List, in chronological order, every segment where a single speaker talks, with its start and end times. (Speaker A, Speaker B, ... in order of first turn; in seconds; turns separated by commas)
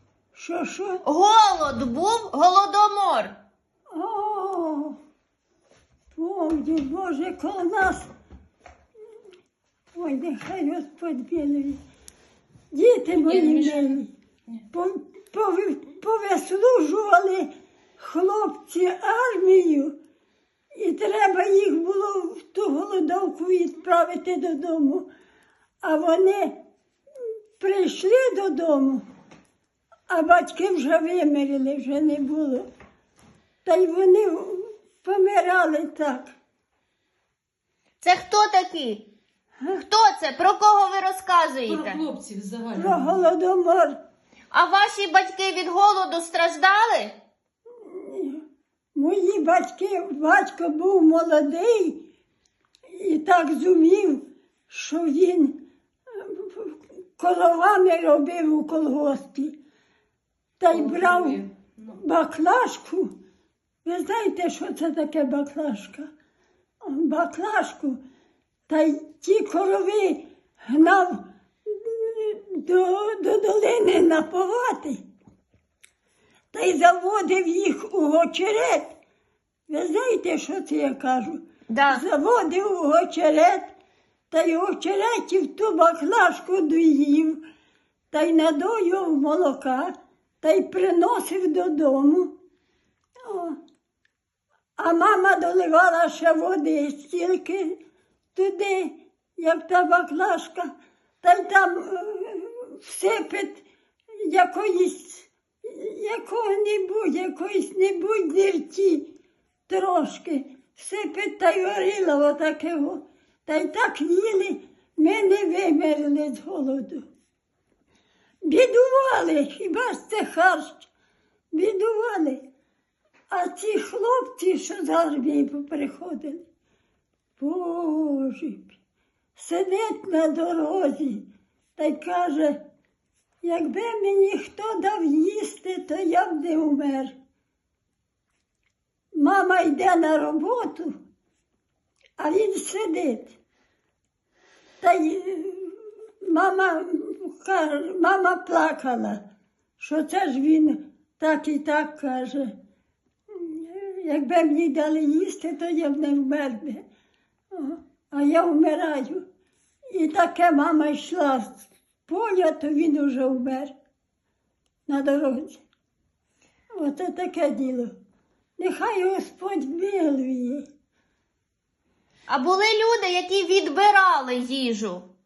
Speaker A: 0.3-1.0, Speaker B: 1.1-3.3, Speaker A: 3.9-5.0, Speaker A: 6.2-8.1, Speaker A: 9.9-11.8, Speaker A: 12.7-14.1, Speaker C: 13.4-13.8, Speaker A: 14.7-20.0, Speaker A: 20.8-25.1, Speaker A: 25.8-26.6, Speaker A: 27.6-29.1, Speaker A: 30.1-32.7, Speaker A: 33.6-36.4, Speaker B: 38.0-39.1, Speaker B: 39.7-42.0, Speaker C: 41.7-43.1, Speaker A: 42.8-44.0, Speaker B: 44.5-47.2, Speaker A: 47.8-48.4, Speaker A: 49.0-52.1, Speaker A: 52.9-59.6, Speaker A: 60.6-63.1, Speaker C: 60.7-62.0, Speaker A: 63.9-66.1, Speaker A: 66.8-68.0, Speaker A: 68.7-75.0, Speaker A: 76.5-78.9, Speaker A: 79.7-83.7, Speaker B: 81.7-82.0, Speaker A: 84.3-87.4, Speaker A: 88.1-92.3, Speaker A: 93.2-93.6, Speaker A: 94.8-97.8, Speaker A: 98.3-100.7, Speaker A: 101.2-103.7, Speaker A: 104.2-109.1, Speaker A: 109.7-117.1, Speaker A: 118.5-120.9, Speaker A: 121.5-122.4, Speaker A: 123.3-126.4, Speaker A: 127.4-128.8, Speaker A: 129.4-131.2, Speaker A: 131.8-132.6, Speaker A: 133.4-137.2, Speaker A: 139.1-141.0, Speaker A: 142.2-143.3, Speaker A: 144.8-149.2, Speaker A: 149.8-152.5, Speaker A: 153.3-156.8, Speaker A: 157.5-159.2, Speaker A: 159.9-163.7, Speaker A: 164.9-165.6, Speaker A: 166.8-167.9, Speaker A: 168.6-170.7, Speaker B: 172.3-175.1